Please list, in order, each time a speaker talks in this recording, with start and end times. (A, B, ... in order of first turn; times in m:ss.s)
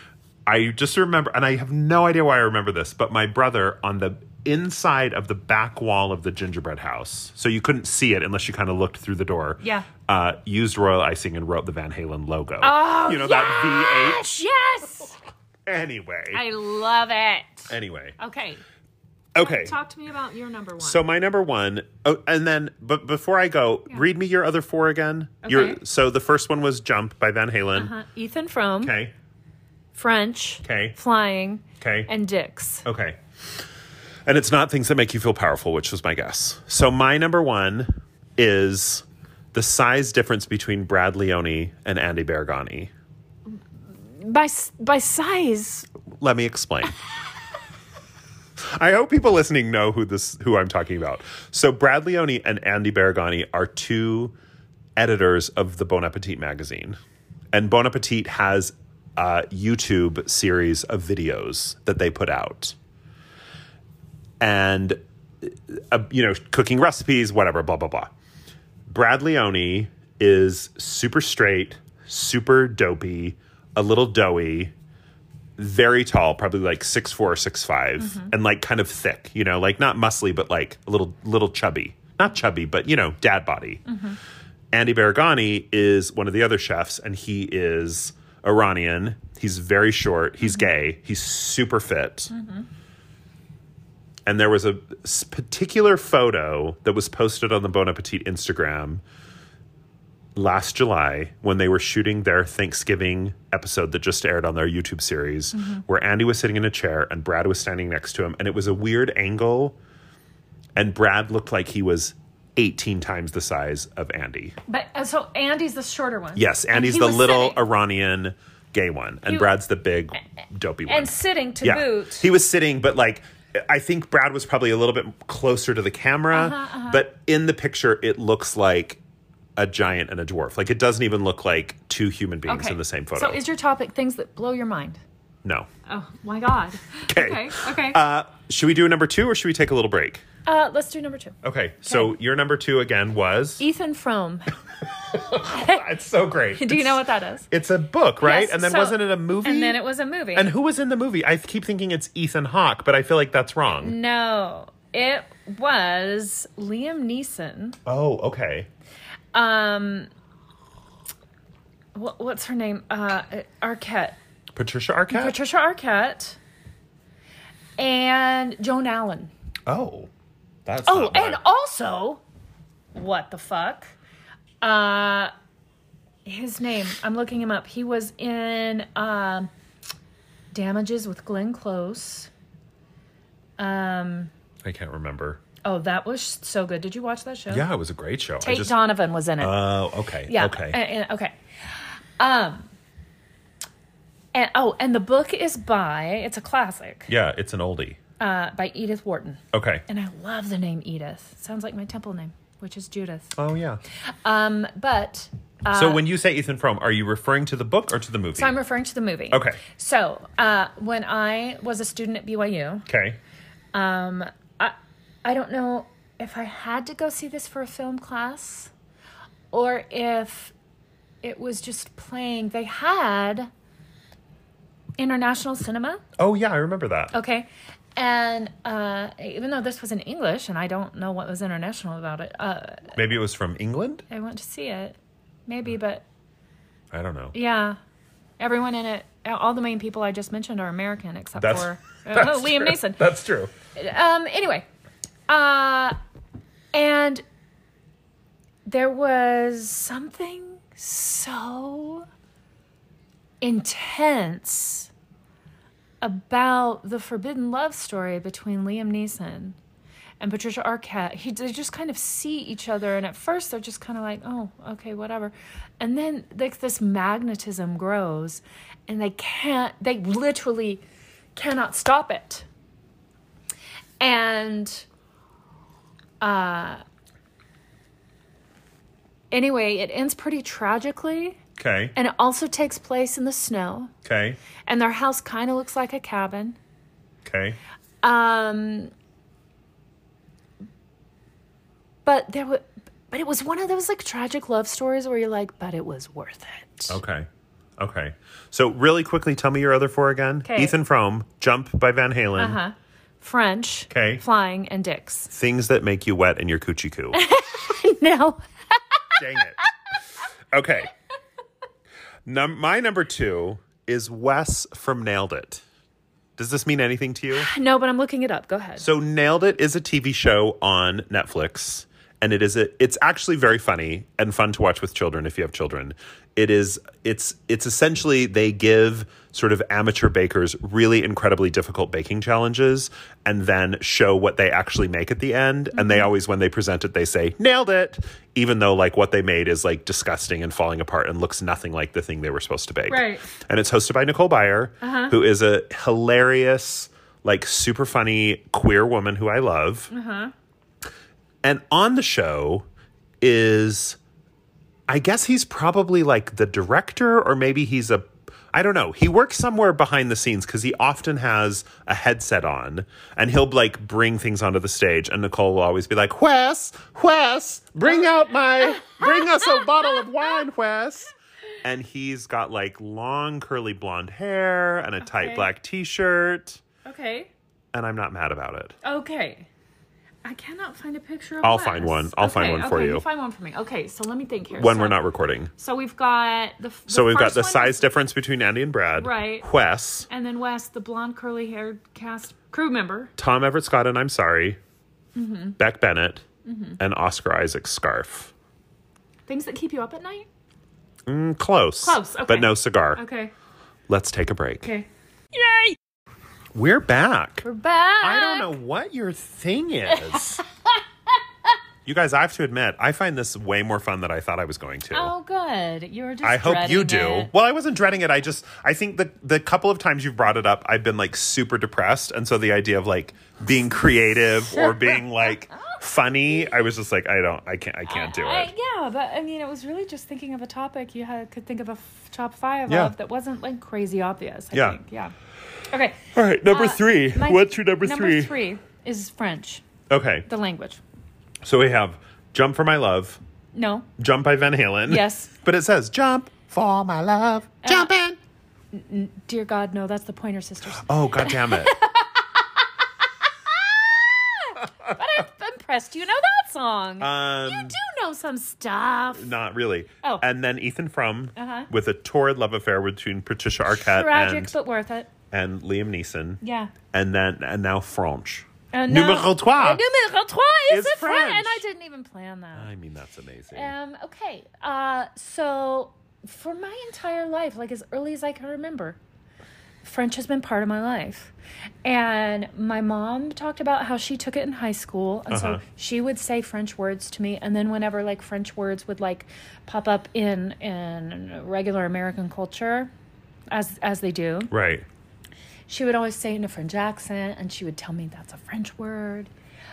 0:00.4-0:14.4 A
0:09.6-0:09.9 B
0:12.6-0:15.2 B
0:15.6-0:16.4 A
0:16.3-0:18.6 B
0:17.7-0:18.2 A
0:19.3-0:19.7 A
0:19.4-0:21.0 B
0:20.8-0:27.9 A
0:25.4-0:25.8 B
0:27.7-0:28.9 B
0:28.8-0:29.1 A
0:29.9-0:32.8 B
0:30.6-0:31.0 A
0:31.8-0:32.1 A
0:32.8-0:33.2 A
0:34.2-0:42.9 A
0:44.2-0:45.9 B
0:46.2-0:47.0 A
0:48.8-0:54.3 A
0:55.0-0:57.0 A
0:57.5-1:02.8 A
1:04.4-1:08.1 A
1:08.9-1:14.7 A
1:15.6-1:23.8 A
1:18.0-1:18.3 B
1:23.9-1:24.2 B
1:24.7-1:32.3 A
1:32.3-1:32.7 B
1:34.2-1:39.0 A
1:40.3-1:49.8 A
1:45.5-1:45.8 B
1:50.8-1:54.6 A
1:54.7-1:57.6 B
1:56.4-2:09.0 A
2:00.8-2:02.3 B
2:06.3-2:07.0 B
2:09.6-2:13.4 A
2:12.5-2:15.0 B
2:15.9-2:18.0 B
2:17.1-2:20.2 A
2:20.4-2:22.1 B
2:21.4-2:23.6 A
2:23.6-2:24.5 B
2:25.0-2:29.8 A
2:25.2-2:25.8 B
2:26.6-2:27.5 B
2:28.2-2:30.5 B
2:30.3-2:34.0 A
2:33.8-2:37.8 B
2:37.8-2:38.7 A
2:39.3-2:40.1 B
2:41.9-2:44.2 B
2:44.5-2:45.4 A
2:45.1-2:46.4 B
2:47.8-2:49.3 B
2:49.7-2:50.1 A
2:50.6-2:51.4 A
2:50.8-2:52.2 B
2:52.9-2:53.9 B
2:54.6-2:55.3 B
2:56.2-2:59.5 B
3:00.5-3:02.3 B
3:03.6-3:04.3 B
3:04.6-3:05.4 A
3:05.6-3:07.6 B
3:07.5-3:08.7 A
3:08.4-3:09.6 B
3:09.4-3:10.8 A
3:10.2-3:12.7 B
3:14.3-3:17.1 B
3:17.1-3:18.0 A
3:18.2-3:23.3 B
3:19.5-3:19.8 A
3:23.3-3:23.8 A
3:24.2-3:26.0 B
3:25.7-3:28.6 A
3:28.4-3:32.9 B
3:29.3-3:29.6 A
3:32.9-3:33.2 A
3:33.7-3:38.7 B
3:39.5-3:40.5 B
3:41.2-3:43.5 B
3:45.0-3:46.0 B
3:46.2-3:47.1 A
3:47.1-3:52.9 B
3:52.9-3:54.0 A
3:54.1-3:56.0 B
3:56.9-3:57.3 A
3:57.3-3:57.8 B
3:58.4-4:03.0 B
4:01.4-4:03.5 A
4:03.7-4:04.6 B
4:05.3-4:05.9 B
4:06.7-4:07.2 B
4:08.7-4:12.0 B
4:13.4-4:14.9 B
4:16.0-4:19.6 B
4:20.2-4:30.8 B
4:31.4-4:32.4 B
4:34.0-4:34.8 B
4:36.2-4:36.8 B
4:39.3-4:41.4 B
4:41.6-4:41.9 A
4:41.9-4:43.9 B
4:44.0-4:44.4 A
4:44.6-4:46.6 B
4:47.2-4:47.6 A
4:48.0-4:48.9 B
4:52.0-4:57.0 B
4:56.9-4:57.3 A
4:57.8-5:02.6 A
5:00.4-5:00.8 B
5:02.4-5:05.3 B
5:03.9-5:04.2 A
5:05.3-5:07.2 A
5:07.1-5:09.2 B
5:09.2-5:09.6 A
5:10.5-5:10.9 A
5:12.2-5:15.6 A
5:16.4-5:17.5 A
5:17.3-5:18.9 B
5:18.8-5:49.9 A
5:35.7-5:36.1 B
5:42.9-5:43.3 B
5:44.8-5:45.2 B
5:49.9-5:50.3 B
5:51.4-5:52.6 A
5:53.2-5:54.0 A
5:54.9-6:11.1 A
6:08.6-6:10.0 B
6:11.6-6:16.6 A
6:15.0-6:15.5 B
6:16.8-6:17.3 B
6:17.7-6:18.8 A
6:18.8-6:19.5 B
6:20.2-6:25.0 B
6:21.4-6:23.0 A
6:24.5-6:25.5 A
6:25.6-6:27.9 B
6:26.9-6:30.1 A
6:29.0-6:29.5 B
6:30.1-6:33.1 B
6:33.2-6:34.6 A
6:35.1-6:35.6 B
6:35.6-6:36.2 A
6:36.4-6:36.8 B
6:36.8-6:38.3 A
6:39.3-6:40.2 B
6:41.0-6:43.0 A
6:41.8-6:43.3 B
6:43.9-6:44.7 A
6:44.6-6:45.8 B
6:46.5-6:47.4 A
6:47.4-6:48.5 B
6:48.0-6:50.4 A
6:49.9-6:50.4 B
6:51.8-6:55.1 A
6:54.9-6:57.3 B
6:56.2-7:08.5 A
7:05.6-7:05.8 B
7:06.4-7:06.6 B
7:07.9-7:15.1 B
7:12.7-7:12.9 A
7:14.5-7:14.8 A
7:15.7-7:19.6 B
7:16.1-7:18.3 A
7:19.9-7:20.3 A
7:20.3-7:20.8 B
7:21.4-7:23.2 A
7:23.5-7:23.9 B
7:24.0-7:28.2 A
7:24.9-7:25.3 B
7:27.6-7:27.9 B
7:28.7-7:32.4 B
7:30.8-7:31.7 A
7:33.5-7:39.3 B
7:37.0-7:37.8 A
7:39.1-7:44.5 A
7:41.4-7:41.7 B
7:43.8-7:45.1 B
7:45.3-7:46.4 A
7:46.4-7:46.7 B
7:46.9-7:49.8 A
7:48.7-7:52.7 B
7:50.7-7:51.6 A
7:52.6-7:53.7 A
7:53.5-7:59.0 B
7:59.8-8:01.3 B
8:01.8-8:12.9 B
8:05.3-8:05.6 A
8:13.5-8:14.5 B
8:14.5-8:14.8 A
8:15.7-8:19.3 B